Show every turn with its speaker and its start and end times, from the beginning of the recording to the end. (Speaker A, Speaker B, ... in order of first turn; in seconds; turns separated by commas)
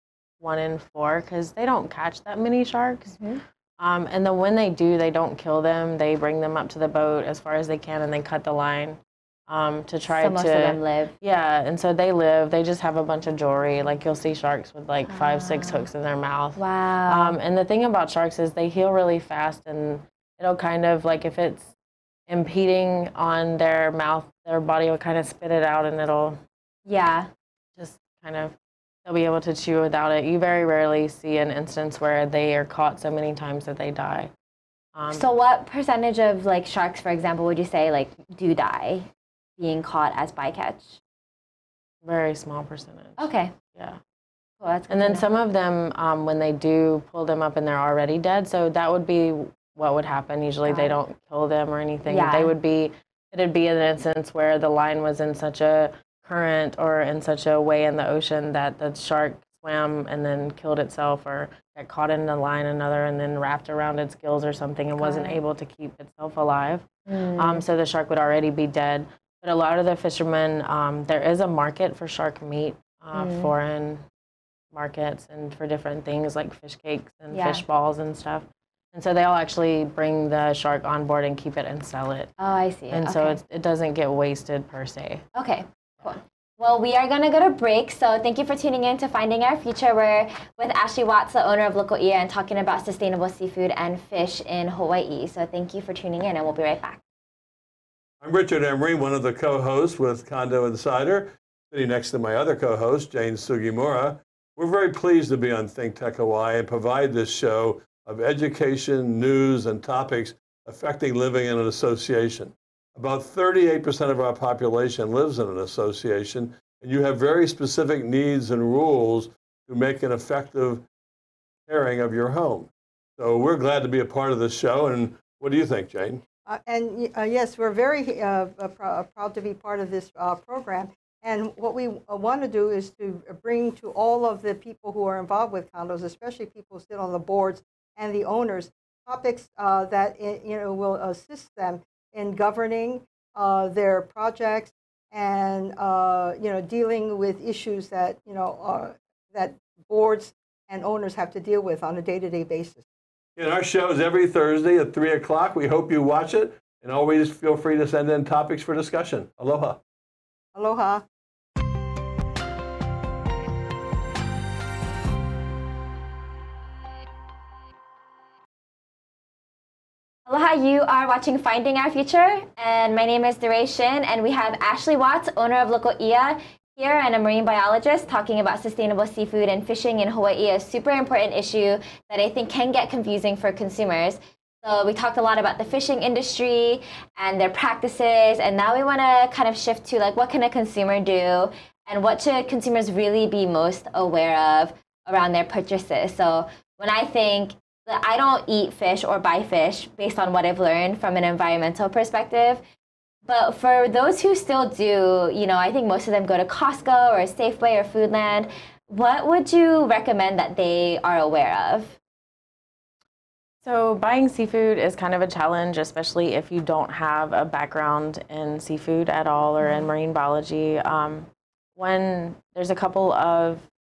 Speaker A: 0.4-3.2, Speaker B: 3.1-3.4, Speaker A: 3.8-21.7, Speaker B: 10.2-11.1, Speaker B: 15.1-15.9, Speaker B: 16.6-17.4, Speaker A: 22.3-26.4, Speaker B: 26.9-27.3, Speaker A: 27.8-34.3, Speaker A: 34.9-35.2, Speaker B: 35.1-41.0, Speaker A: 42.0-44.0, Speaker B: 43.2-43.5, Speaker B: 44.6-45.2, Speaker A: 44.9-74.0, Speaker B: 50.6-51.0, Speaker B: 52.1-52.5, Speaker B: 65.0-65.4, Speaker B: 67.0-67.6, Speaker B: 73.1-73.5, Speaker A: 74.7-82.3, Speaker B: 77.3-77.6, Speaker B: 82.4-83.4, Speaker A: 82.9-85.2, Speaker B: 85.3-97.0, Speaker C: 98.2-120.8, Speaker C: 121.7-126.2, Speaker D: 126.5-152.8, Speaker C: 153.4-159.8, Speaker D: 160.5-161.0, Speaker B: 170.2-202.6, Speaker B: 203.2-212.0, Speaker A: 213.6-223.7, Speaker B: 219.6-219.9